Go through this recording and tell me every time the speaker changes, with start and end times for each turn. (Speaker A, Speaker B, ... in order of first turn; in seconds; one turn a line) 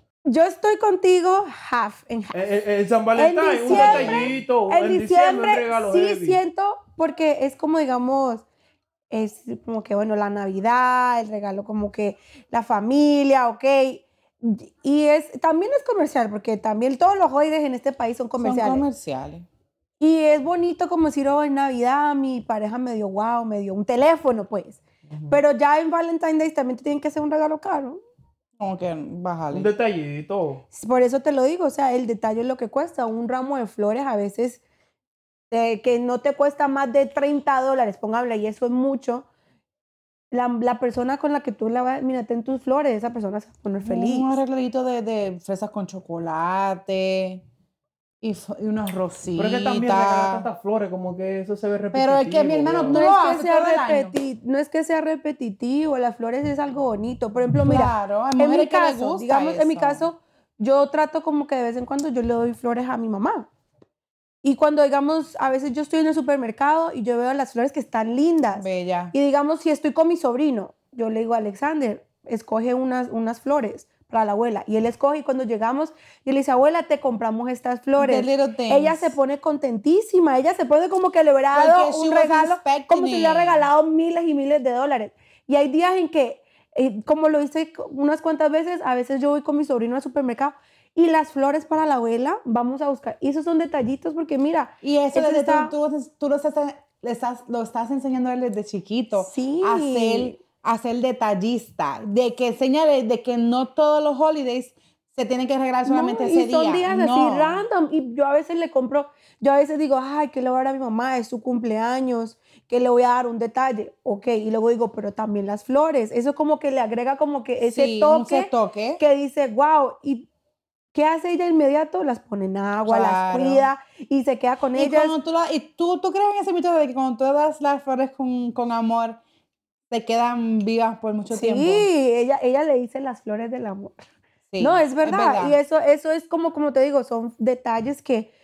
Speaker A: 0.3-2.4
Speaker B: 2.3-6.4
Speaker A: 3.2-8.5
Speaker C: 3.7-4.3
Speaker A: 9.1-18.9
Speaker C: 18.4-19.5
Speaker A: 20.0-28.0
Speaker B: 25.1-25.4
Speaker C: 28.6-29.7
Speaker B: 29.5-30.6
Speaker A: 30.7-34.6
Speaker A: 35.5-39.3
Speaker A: 40.3-44.4
Speaker C: 43.8-47.4
Speaker C: 48.2-50.5
Speaker B: 49.4-53.0
Speaker C: 51.9-54.1
Speaker A: 52.9-63.5
Speaker C: 57.6-60.1
Speaker A: 64.4-95.7
Speaker C: 68.5-69.1
Speaker C: 78.0-79.2
Speaker C: 81.5-83.7
Speaker C: 94.8-107.6
Speaker A: 99.2-100.4
Speaker A: 105.8-120.3
Speaker C: 117.6-119.0
Speaker A: 120.9-125.2
Speaker C: 122.9-123.7
Speaker C: 124.8-129.2
Speaker C: 129.9-131.9
Speaker A: 131.3-134.0
Speaker C: 134.5-135.6
Speaker A: 134.6-138.3